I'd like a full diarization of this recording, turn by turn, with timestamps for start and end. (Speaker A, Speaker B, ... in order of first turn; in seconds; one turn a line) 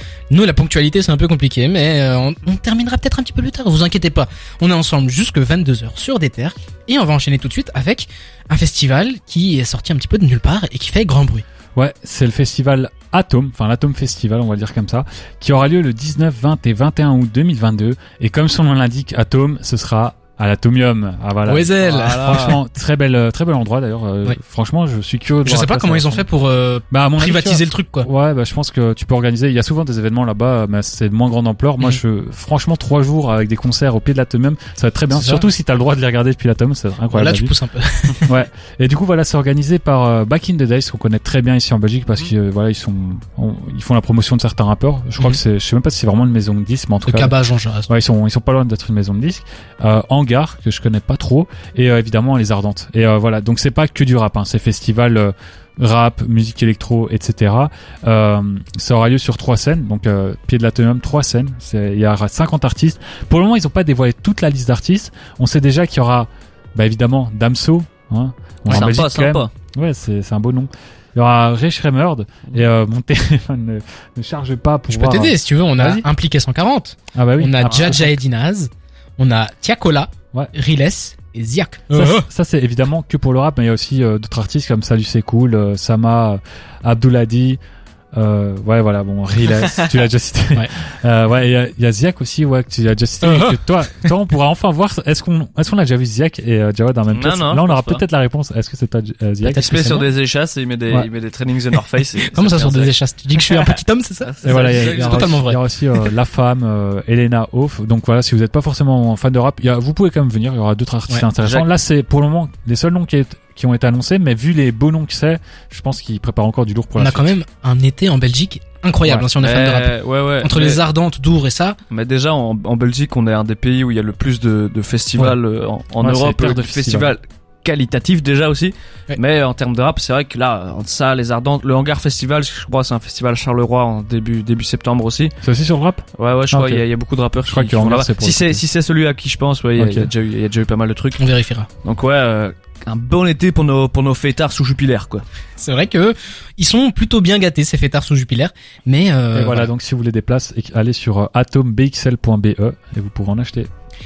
Speaker A: 0.3-11.4
Speaker B: 11.8-26.2
Speaker A: 21.5-22.5
Speaker C: 21.8-22.6
Speaker A: 25.4-28.1
Speaker B: 26.9-37.5
Speaker A: 35.1-35.5
Speaker A: 37.1-38.3
Speaker B: 38.2-47.4
Speaker A: 47.0-47.9
Speaker B: 47.9-76.1
Speaker C: 68.7-69.5
Speaker A: 74.9-82.3
Speaker B: 77.1-78.0
Speaker C: 77.6-78.1
Speaker B: 81.9-87.6
Speaker B: 88.2-100.1
Speaker C: 89.6-90.0
Speaker A: 93.2-93.6
Speaker C: 97.1-98.0
Speaker C: 99.4-105.4
Speaker A: 102.3-105.6
Speaker B: 104.4-117.3
Speaker C: 111.4-111.7
Speaker A: 117.0-121.8
Speaker C: 119.1-120.8
Speaker C: 121.9-135.3
Speaker B: 126.0-127.1
Speaker B: 135.4-136.8
Speaker C: 136.2-141.2
Speaker B: 137.4-138.6
Speaker B: 139.8-140.1
Speaker A: 141.2-141.7
Speaker C: 141.8-145.2
Speaker A: 145.6-149.7
Speaker B: 149.3-153.7